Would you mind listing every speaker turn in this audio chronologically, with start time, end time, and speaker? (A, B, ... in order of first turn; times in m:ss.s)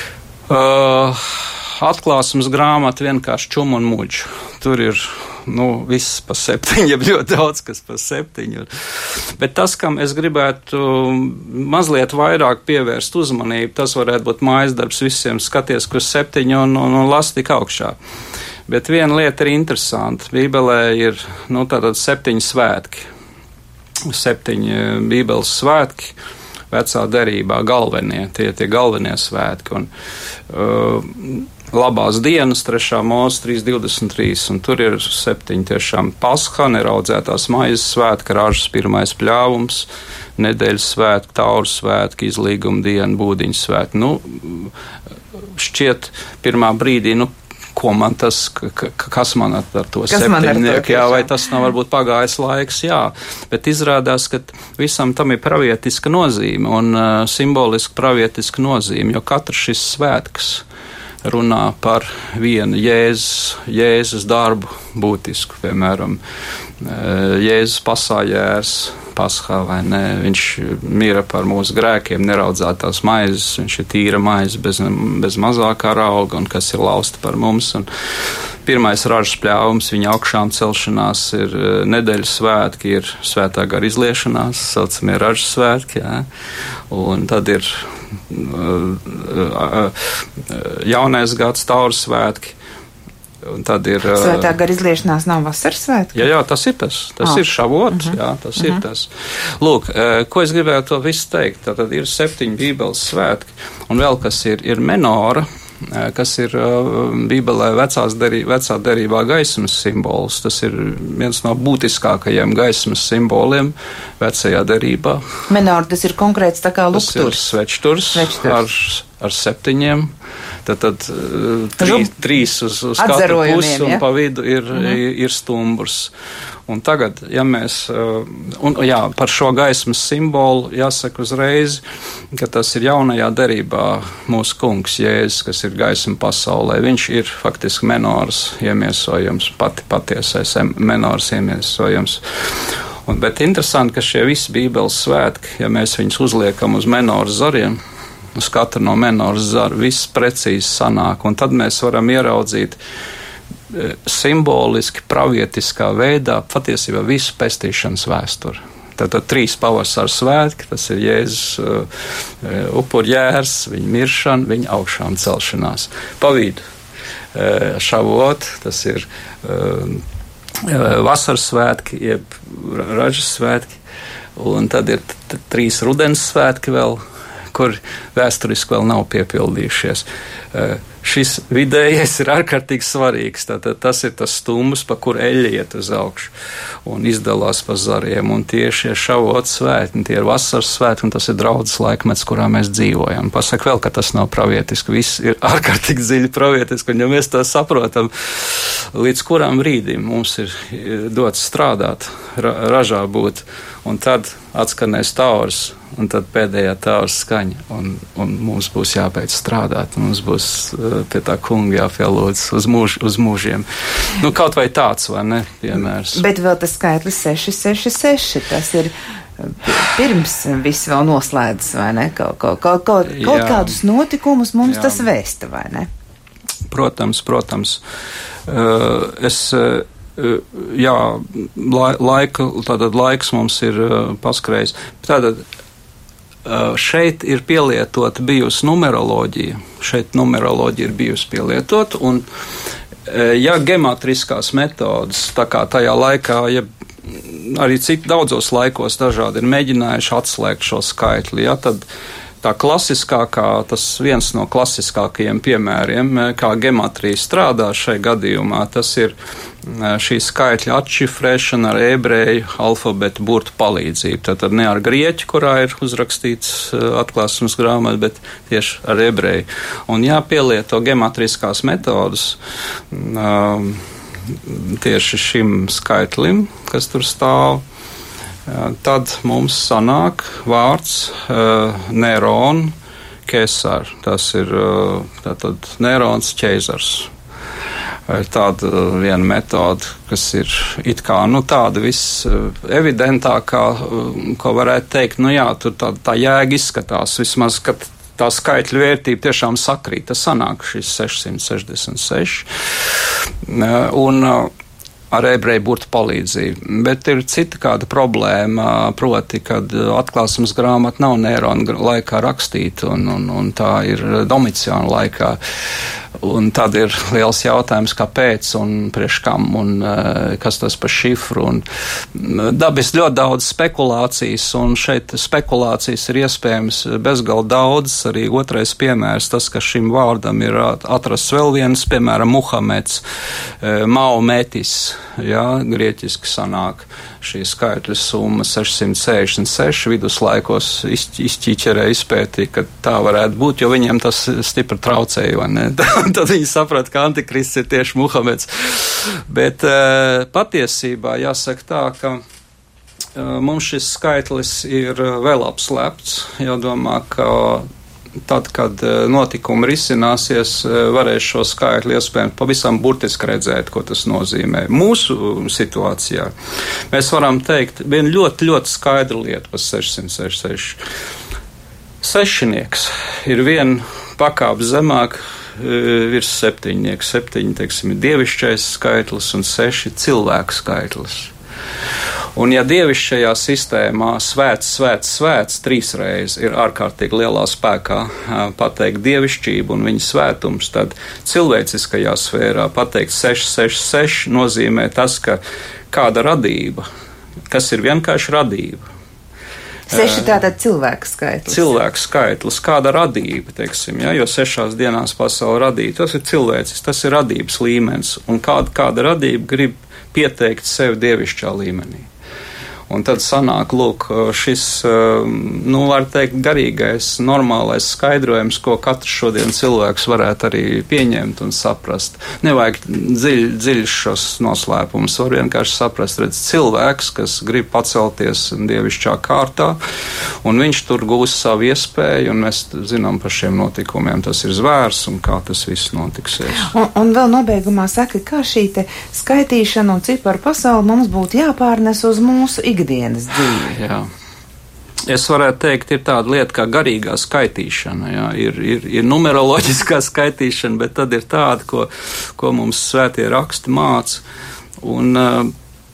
0:00.5-0:18.0 A
0:18.7-0:23.1 A
0:24.1-0:26.1 A
0:26.7-0:29.9 A
0:30.5-0:44.7 A
0:45.5-1:00.6 A
0:50.1-0:51.3 B
1:01.2-1:06.2 A
1:06.8-1:17.8 A
1:18.6-1:26.2 A
1:26.9-1:32.6 A
1:33.4-1:34.5 A
1:34.1-1:36.2 B
1:36.1-1:55.2 A
1:55.5-1:57.4 B
1:56.9-2:00.1 A
1:58.1-1:58.6 B
2:00.6-2:06.1 A
2:01.8-2:02.1 B
2:03.0-2:04.0 B
2:06.7-2:11.8 A
2:12.3-2:27.8 A
2:28.3-2:32.8 A
2:33.7-2:46.6 A
2:47.3-2:50.0 A
2:50.6-2:53.8 A
2:54.4-2:57.0 A
2:57.5-3:06.3 A
3:06.8-3:36.2 A
3:36.1-3:45.9 B
3:43.1-3:43.8 A
3:44.6-3:45.0 A
3:46.7-3:47.8 A
3:48.5-3:55.4 A
3:56.4-4:02.2 A
4:03.0-4:11.8 A
4:12.4-4:32.4 A
4:32.9-4:37.6 A
4:38.4-4:42.7 A
4:43.2-4:47.1 A
4:48.1-5:04.5 A
5:05.1-5:15.4 A
5:16.2-5:33.0 A
5:33.6-5:52.2 A
5:53.1-5:57.6 A
5:58.2-6:06.3 A
6:06.9-6:10.8 A
6:12.0-6:21.3 A
6:22.4-6:36.8 A
6:37.5-6:38.8 A
6:39.9-6:40.4 A
6:39.9-6:41.6 B
6:41.5-6:52.1 A
6:52.9-7:09.8 A
7:10.4-7:16.7 A
7:16.6-7:23.8 B
7:23.7-7:24.1 A
7:25.1-7:34.2 A
7:34.8-7:35.5 A